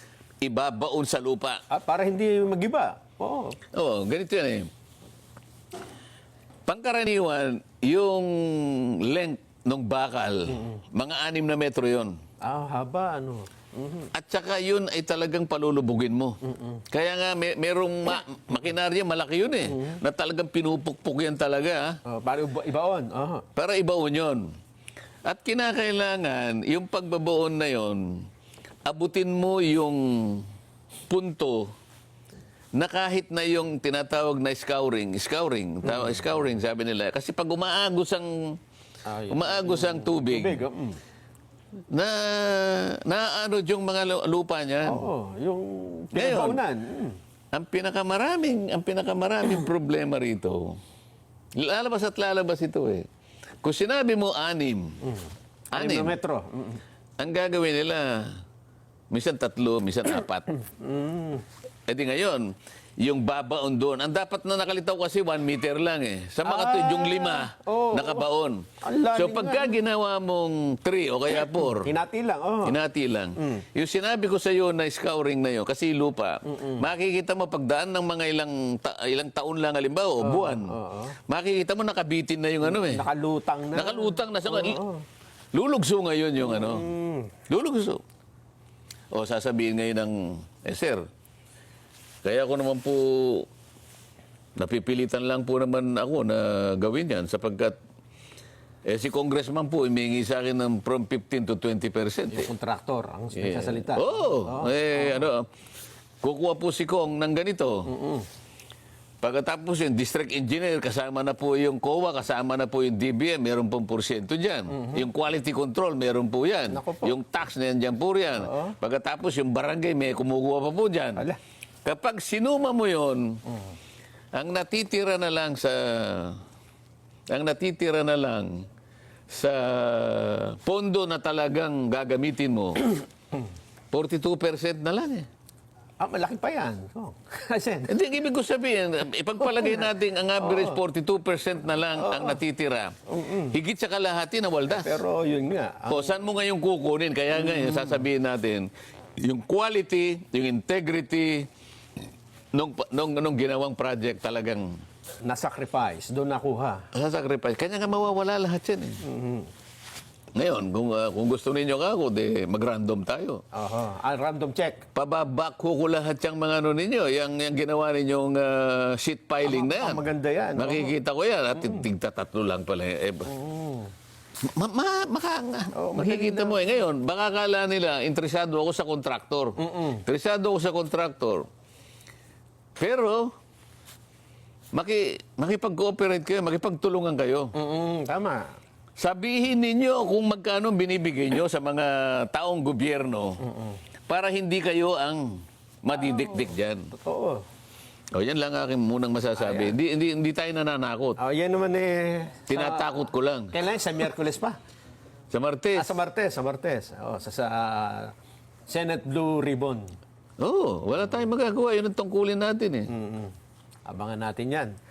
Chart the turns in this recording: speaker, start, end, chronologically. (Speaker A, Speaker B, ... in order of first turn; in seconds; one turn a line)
Speaker A: 0.4-1.6
Speaker B: 1.7-3.6
Speaker A: 3.7-4.7
Speaker A: 6.7-12.1
Speaker B: 12.4-14.1
Speaker A: 14.1-22.0
Speaker B: 19.7-20.0
Speaker B: 22.1-23.4
Speaker A: 23.5-24.5
Speaker A: 25.2-28.2
Speaker A: 28.9-30.4
Speaker A: 31.1-31.7
Speaker A: 32.8-38.5
Speaker B: 39.0-41.0
Speaker A: 39.3-40.6
Speaker A: 41.9-45.0
Speaker B: 44.8-47.1
Speaker A: 46.1-46.6
Speaker A: 47.5-50.8
Speaker A: 51.6-53.1
Speaker A: 53.6-55.0
Speaker B: 55.0-56.8
Speaker A: 55.7-56.2
Speaker A: 57.2-58.4
Speaker A: 59.1-60.5
Speaker B: 60.6-61.4
Speaker A: 61.9-62.5
Speaker A: 63.0-71.9
Speaker B: 66.4-68.2
Speaker B: 68.8-69.8
Speaker B: 71.8-72.8
Speaker A: 72.6-80.7
Speaker B: 76.5-76.8
Speaker B: 80.2-81.1
Speaker A: 81.3-83.0
Speaker B: 82.6-85.0
Speaker A: 83.7-84.8
Speaker A: 85.5-86.9
Speaker B: 86.5-87.3
Speaker A: 87.5-88.0
Speaker A: 89.1-91.1
Speaker A: 92.2-93.5
Speaker A: 94.6-97.8
Speaker A: 98.9-102.5
Speaker B: 102.3-105.3
Speaker A: 103.3-105.5
Speaker A: 106.2-107.9
Speaker B: 107.9-108.3
Speaker A: 109.2-121.2
Speaker B: 114.7-115.0
Speaker B: 116.7-117.1
Speaker B: 118.4-118.7
Speaker A: 121.8-123.4
Speaker A: 124.3-126.4
Speaker A: 127.3-128.6
Speaker A: 129.3-133.0
Speaker A: 133.9-135.3
Speaker B: 136.0-137.9
Speaker A: 137.9-145.0
Speaker B: 139.4-140.8
Speaker B: 142.0-142.4
Speaker B: 143.1-143.6
Speaker B: 144.7-146.2
Speaker A: 145.9-151.5
Speaker B: 147.4-148.0
Speaker A: 152.5-154.8
Speaker B: 155.2-156.8
Speaker A: 156.9-159.0
Speaker B: 159.0-159.5
Speaker A: 160.3-163.4
Speaker B: 163.5-164.8
Speaker A: 164.9-170.0
Speaker B: 169.4-170.9
Speaker A: 170.6-173.3
Speaker B: 171.6-171.8
Speaker B: 173.3-173.9
Speaker A: 174.4-181.5
Speaker B: 175.7-176.7
Speaker B: 179.6-180.0
Speaker A: 182.8-183.3
Speaker A: 184.7-187.5
Speaker B: 187.5-188.5
Speaker A: 189.0-193.4
Speaker B: 193.4-193.8
Speaker A: 194.1-196.9
Speaker B: 196.9-197.4
Speaker A: 198.1-201.2
Speaker B: 199.4-199.7
Speaker B: 201.2-204.6
Speaker A: 202.5-203.5
Speaker A: 205.3-205.9
Speaker B: 205.7-208.1
Speaker B: 208.7-209.9
Speaker A: 210.4-212.9
Speaker B: 212.9-213.3
Speaker B: 213.8-214.7